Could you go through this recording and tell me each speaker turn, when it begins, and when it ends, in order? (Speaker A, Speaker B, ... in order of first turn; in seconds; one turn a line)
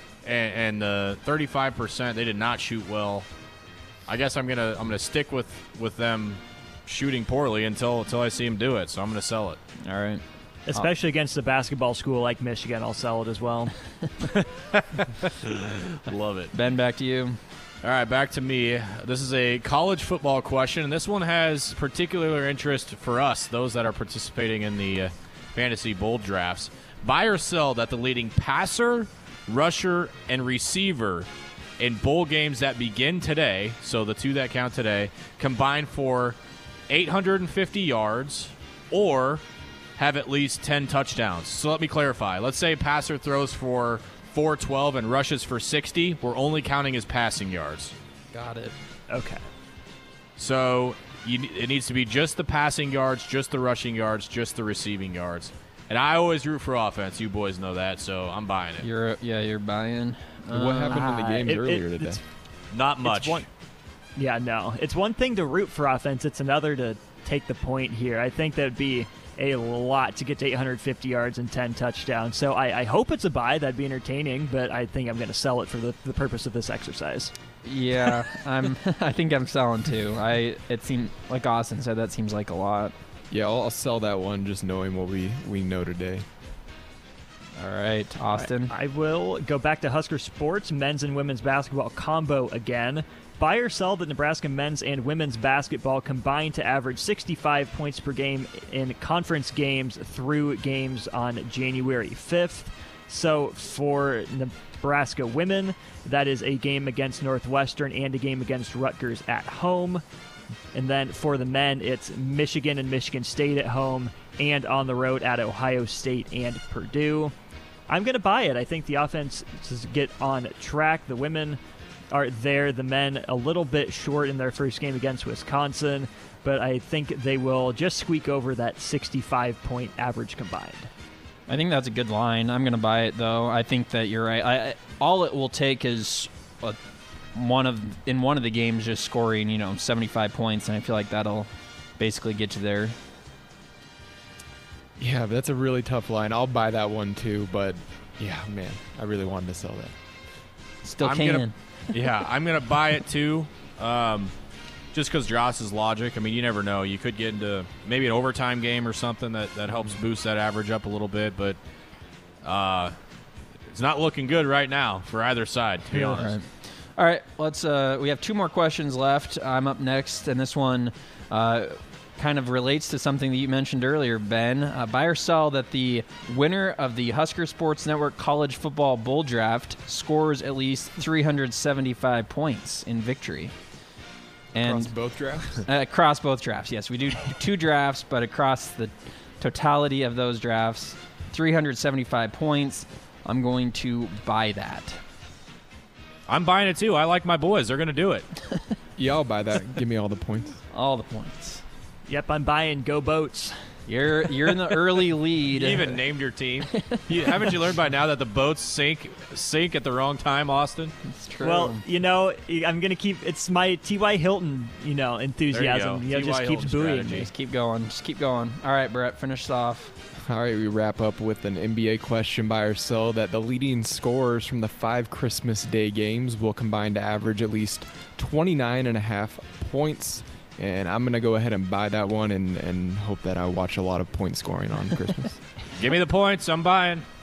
Speaker A: 0.2-3.3
Speaker A: 4.1-9.6
Speaker B: 9.8-10.9
Speaker C: 10.7-13.8
Speaker A: 14.3-16.5
Speaker B: 16.5-17.4
Speaker A: 17.8-36.4
Speaker A: 36.9-39.4
Speaker A: 40.0-47.9
Speaker B: 48.3-48.7
Speaker C: 49.1-49.4
Speaker A: 50.4-58.9
Speaker B: 58.8-61.1
Speaker D: 60.5-62.2
Speaker C: 60.9-62.2
Speaker A: 62.7-63.5
Speaker C: 63.0-63.4
Speaker C: 64.2-77.3
Speaker B: 77.6-82.9
Speaker D: 83.3-86.3
Speaker B: 87.5-88.7
Speaker C: 88.3-110.0
Speaker C: 110.7-117.3
Speaker C: 117.9-121.6
Speaker C: 122.1-130.9
Speaker B: 131.5-136.8
Speaker B: 137.3-142.9
Speaker D: 145.0-149.9
Speaker B: 150.8-151.6
Speaker A: 151.0-154.3
Speaker A: 154.9-161.6
Speaker A: 162.4-162.9
Speaker A: 163.7-166.4
Speaker B: 165.9-183.5
Speaker B: 184.5-185.1
Speaker D: 184.6-185.7
Speaker B: 185.6-195.0
Speaker A: 196.3-198.3
Speaker D: 199.0-200.6
Speaker B: 200.7-201.6
Speaker C: 202.1-203.6
Speaker B: 203.9-206.0
Speaker A: 205.5-210.9
Speaker B: 206.7-207.6
Speaker B: 211.0-211.8
Speaker C: 211.4-217.3
Speaker A: 215.5-217.3
Speaker B: 217.2-219.9
Speaker D: 220.1-235.5
Speaker A: 235.7-237.1